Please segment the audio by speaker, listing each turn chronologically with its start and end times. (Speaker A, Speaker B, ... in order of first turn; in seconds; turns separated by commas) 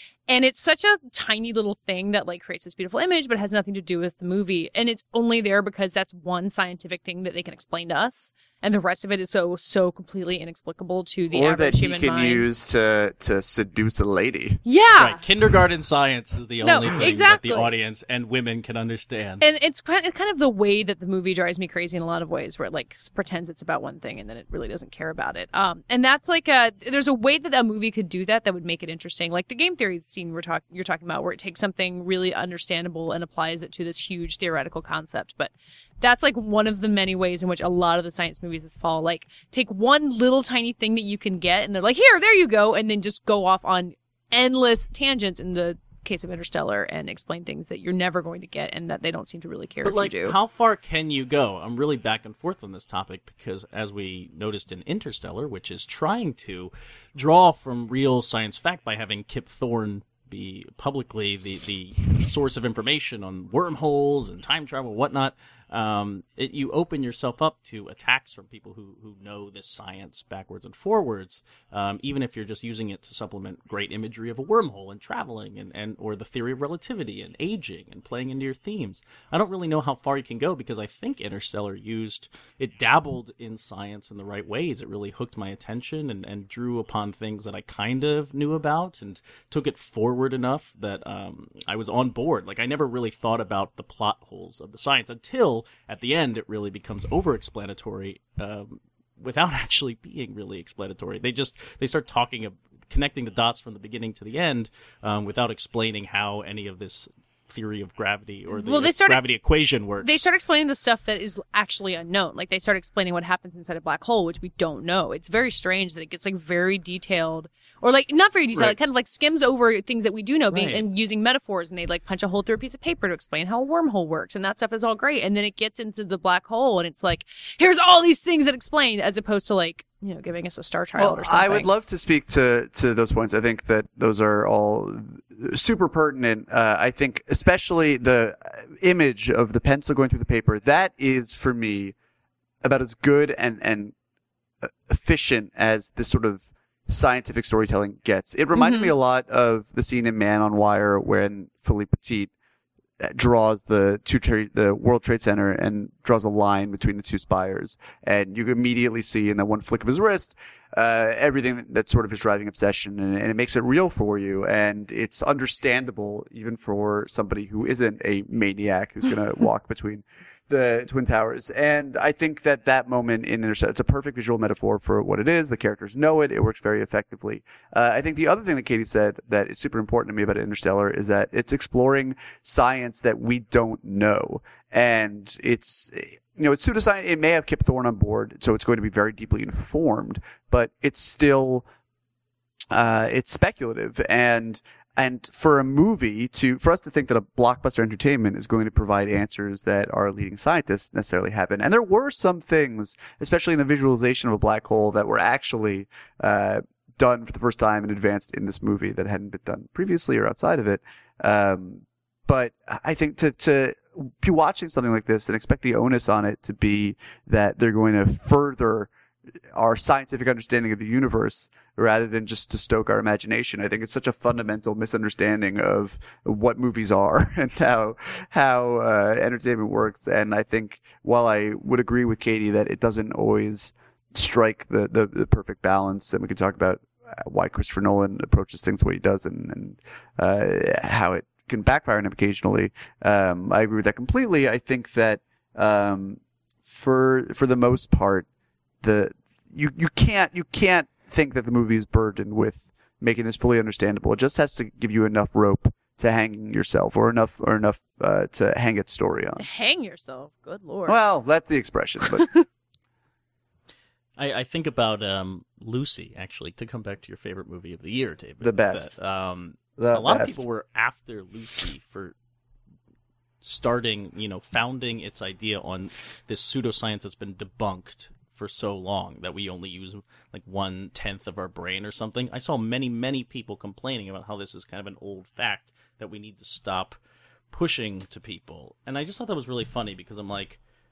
Speaker A: 0.3-12.4, Speaker B: 11.3-14.6, Speaker A: 14.7-15.2, Speaker C: 14.9-19.4, Speaker A: 16.6-17.8, Speaker A: 19.4-50.4, Speaker C: 49.8-110.3, Speaker A: 108.5-109.2, Speaker A: 110.0-131.7, Speaker C: 120.5-120.8, Speaker B: 131.0-141.9, Speaker B: 142.6-143.9, Speaker B: 144.6-152.3, Speaker A: 148.5-148.9, Speaker B: 153.0-191.7, Speaker B: 192.7-218.9, Speaker B: 219.5-248.3, Speaker B: 248.8-259.5, Speaker A: 259.4-261.0, Speaker B: 260.9-262.3, Speaker C: 264.2-272.1, Speaker B: 268.4-268.9, Speaker B: 269.8-270.4, Speaker C: 273.4-287.0, Speaker C: 287.5-290.6